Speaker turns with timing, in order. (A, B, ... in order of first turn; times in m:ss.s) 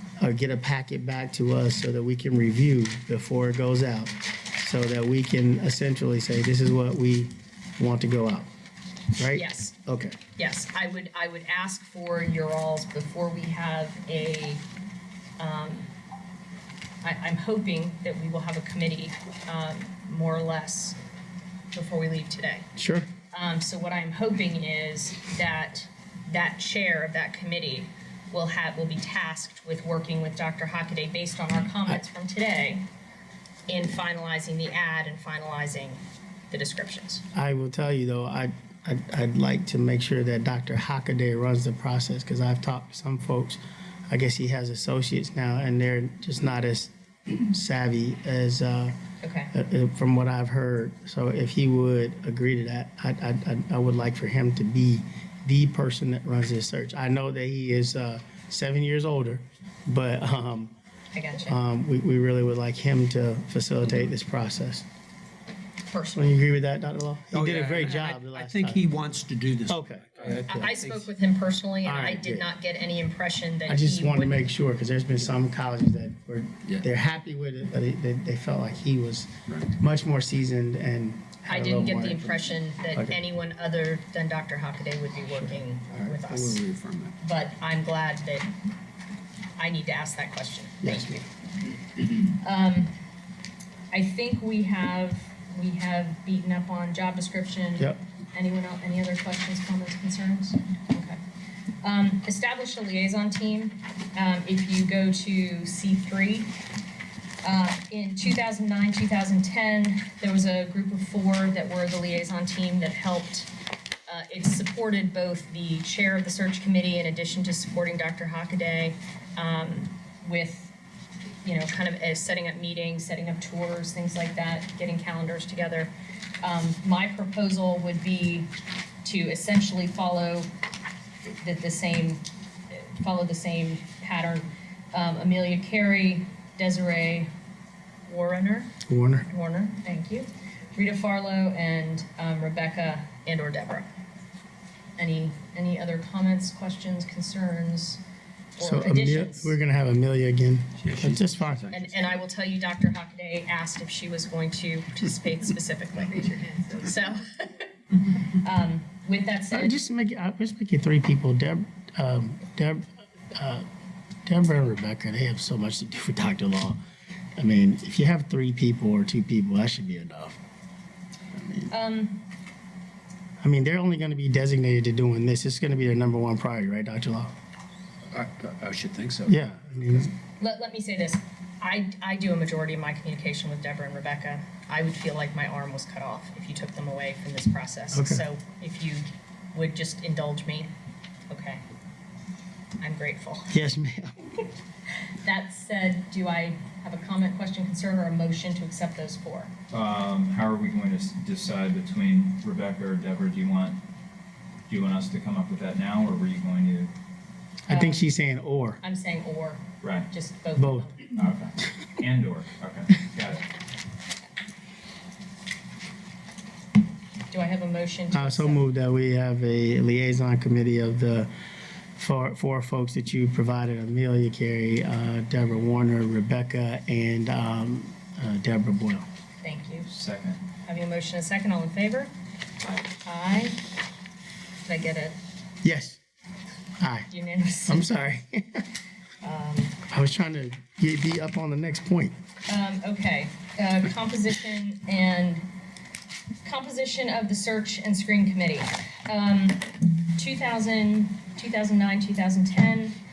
0:00.2-0:08.5 A
0:09.2-0:10.2 A
0:09.3-0:09.7 B
0:10.4-0:14.6 B
0:15.4-0:15.9 B
0:17.0-0:21.0 B
0:21.7-0:22.7 B
0:22.8-0:23.1 A
0:23.3-0:32.8 B
0:33.7-0:37.2 B
0:37.3-0:49.0 A
0:49.2-0:49.5 B
0:49.5-1:00.7 A
1:01.1-1:01.6 B
1:01.4-1:04.8 A
1:05.9-1:06.3 B
1:06.1-1:08.8 A
1:07.3-1:11.1 C
1:09.7-1:10.7 A
1:10.4-1:14.5 B
1:11.8-1:12.4 A
1:13.7-1:23.2 A
1:21.4-1:26.6 B
1:26.2-1:27.1 C
1:27.2-1:28.5 B
1:29.6-1:31.2 B
1:30.8-1:31.2 A
1:31.9-1:32.9 B
1:33.9-1:41.2 B
1:41.8-1:46.6 B
1:47.4-1:53.5 B
1:54.1-2:00.7 B
2:01.4-2:08.5 B
2:09.0-2:10.5 B
2:11.4-2:17.3 B
2:18.0-2:18.7 B
2:18.8-2:19.3 A
2:19.3-2:23.9 B
2:25.0-2:28.0 B
2:28.6-2:29.5 B
2:28.6-2:31.7 A
2:30.8-2:32.1 C
2:31.7-2:39.7 B
2:39.5-2:43.6 A
2:44.2-2:46.8 A
2:47.4-2:50.4 A
2:51.3-2:51.7 A
2:51.7-2:52.2 B
2:53.4-2:57.3 A
2:58.1-2:59.4 C
2:59.3-3:00.1 A
3:00.4-3:10.7 B
3:07.9-3:08.2 A
3:11.3-3:11.6 B
3:12.8-3:13.5 B
3:13.5-3:14.3 A
3:15.2-3:19.5 B
3:19.7-3:23.8 D
3:24.7-3:26.9 D
3:27.7-3:28.8 A
3:27.7-3:28.0 B
3:28.8-3:31.1 B
3:29.8-3:30.1 D
3:30.6-3:31.0 A
3:31.2-3:33.4 D
3:37.3-3:38.6 B
3:38.1-3:41.3 A
3:42.0-3:49.1 A
3:49.4-3:49.9 B
3:49.9-3:50.4 D
3:50.6-3:52.1 B
3:53.0-3:53.6 B
3:54.6-3:55.2 B
3:55.6-3:56.0 A
3:56.8-3:57.1 A
3:57.1-3:57.9 B
3:57.7-3:58.7 A
3:59.2-3:59.8 B
3:59.9-4:02.1 A
4:02.5-4:05.5 B
4:06.4-4:13.0 B